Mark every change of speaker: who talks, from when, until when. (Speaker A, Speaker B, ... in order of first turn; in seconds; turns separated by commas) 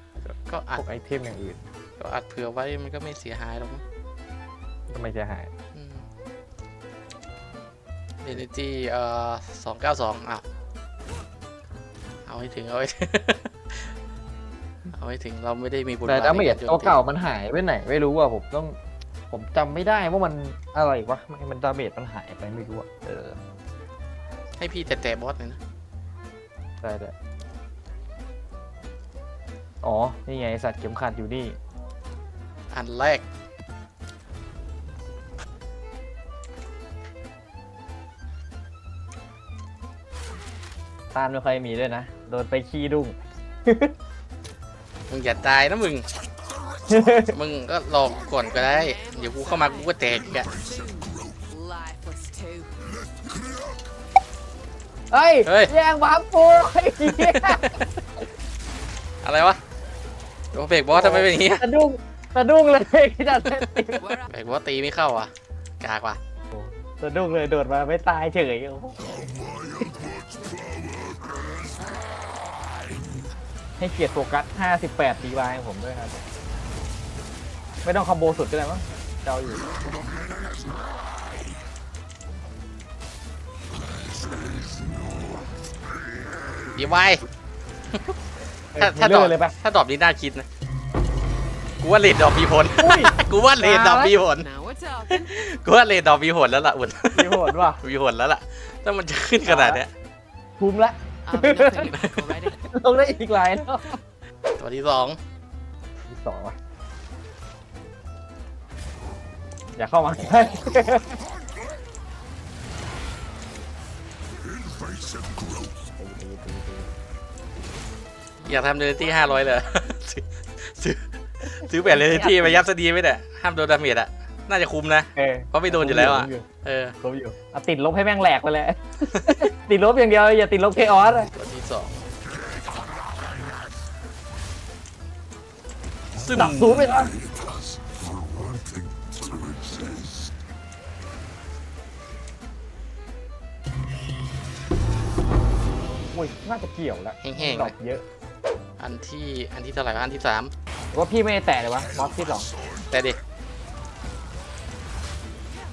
Speaker A: 0.2-0.8, Speaker B: 0.8-1.6, Speaker A: 2.0-3.8, Speaker B: 4.9-5.5, Speaker A: 5.7-6.1, Speaker A: 8.2-10.4, Speaker A: 12.3-13.9, Speaker A: 14.9-17.0, Speaker B: 16.1-18.8, Speaker B: 19.3-23.4, Speaker A: 24.6-25.6, Speaker B: 26.8-27.1, Speaker B: 29.8-31.6, Speaker A: 32.7-33.3, Speaker B: 41.1-43.9, Speaker A: 45.1-46.1, Speaker B: 46.9-47.4, Speaker A: 47.3-50.5, Speaker C: 48.5-52.7, Speaker B: 55.1-57.8, Speaker A: 55.5-55.7, Speaker A: 57.0-57.9, Speaker A: 59.2-59.6, Speaker A: 60.5-61.7, Speaker B: 60.9-64.0, Speaker C: 64.0-64.3, Speaker A: 64.3-66.2, Speaker B: 66.5-69.0, Speaker B: 73.8-76.2, Speaker B: 77.8-79.8, Speaker A: 86.7-87.2, Speaker B: 88.7-89.5, Speaker A: 88.8-90.5, Speaker A: 91.8-94.5, Speaker B: 92.8-94.1, Speaker C: 94.4-95.5, Speaker A: 95.1-99.9, Speaker B: 97.1-97.8, Speaker B: 99.5-99.8, Speaker B: 100.6-101.9, Speaker C: 101.3-102.6, Speaker A: 101.9-102.3, Speaker B: 102.7-104.0, Speaker A: 104.6-105.2, Speaker B: 106.1-106.6, Speaker B: 109.8-111.2, Speaker B: 116.0-116.9, Speaker A: 118.5-127.0, Speaker B: 121.9-122.6, Speaker B: 125.2-126.5, Speaker B: 127.0-131.3, Speaker A: 131.3-132.0, Speaker A: 136.2-137.0, Speaker B: 136.3-137.2, Speaker B: 146.1-148.0, Speaker A: 147.2-147.8, Speaker A: 148.8-150.5, Speaker B: 150.9-152.5, Speaker A: 152.8-153.2